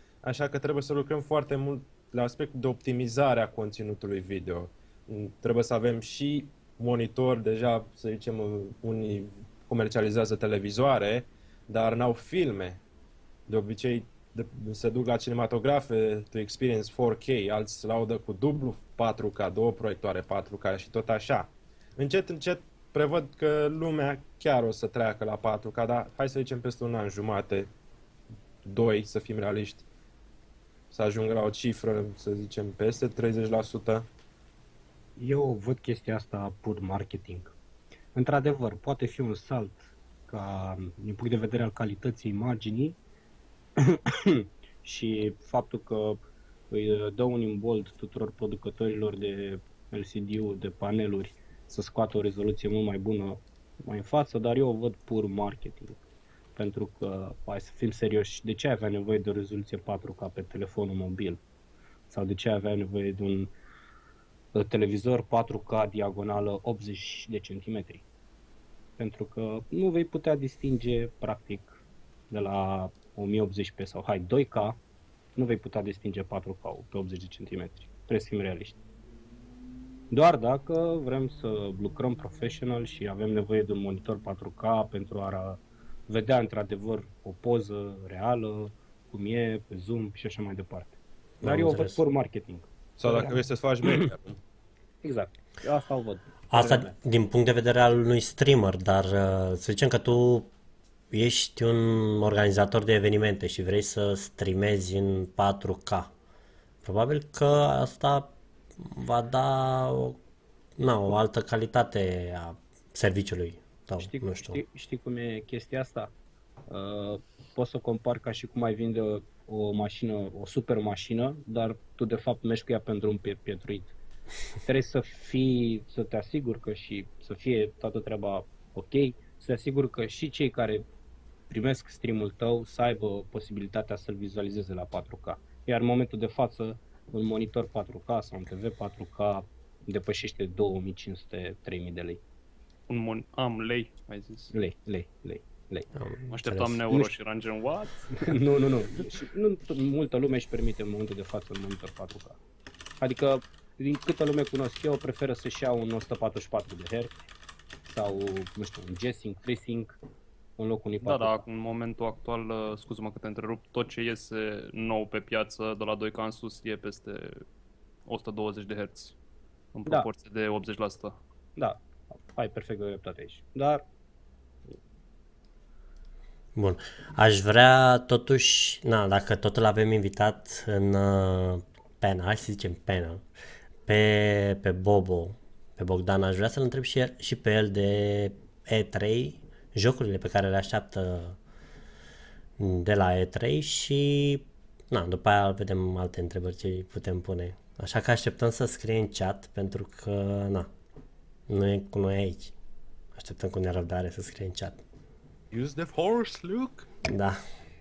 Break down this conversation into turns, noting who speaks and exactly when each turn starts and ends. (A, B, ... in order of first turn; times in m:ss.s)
0:00.2-0:12.8 A
0:13.5-0:27.7 A
0:28.6-0:29.9 A
0:30.9-0:34.1 A
0:35.2-0:37.5 B
0:38.2-0:43.0 B
0:43.8-0:46.2 B
0:46.7-0:56.0 B
0:56.6-1:01.4 B
1:02.1-1:03.5 B
1:04.5-1:08.0 B
1:09.0-1:14.8 B
1:15.4-1:18.8 B
1:20.1-1:34.1 B
1:31.4-1:32.0 C
1:33.0-1:34.4 A
1:35.0-1:36.9 B
1:36.5-1:40.5 C
1:41.1-1:46.1 C
1:46.8-1:50.2 C
1:50.8-1:54.6 C
1:54.0-1:56.1 B
1:56.7-2:03.9 B
2:04.6-2:10.9 B
2:11.5-2:22.2 B
2:22.9-2:24.5 D
2:24.5-2:25.9 B
2:26.0-2:26.8 C
2:26.3-2:28.3 D
2:28.2-2:32.4 B
2:33.0-2:37.2 B
2:37.9-2:40.0 B
2:40.6-2:41.4 B
2:41.0-2:47.4 D
2:48.1-2:49.2 D
2:49.7-2:51.2 D
2:51.6-2:53.8 B
2:56.6-3:03.2 C
3:03.9-3:11.4 C
3:12.6-3:20.7 C
3:21.5-3:22.5 C
3:23.2-3:24.8 C
3:25.5-3:26.9 A
3:27.0-3:27.4 C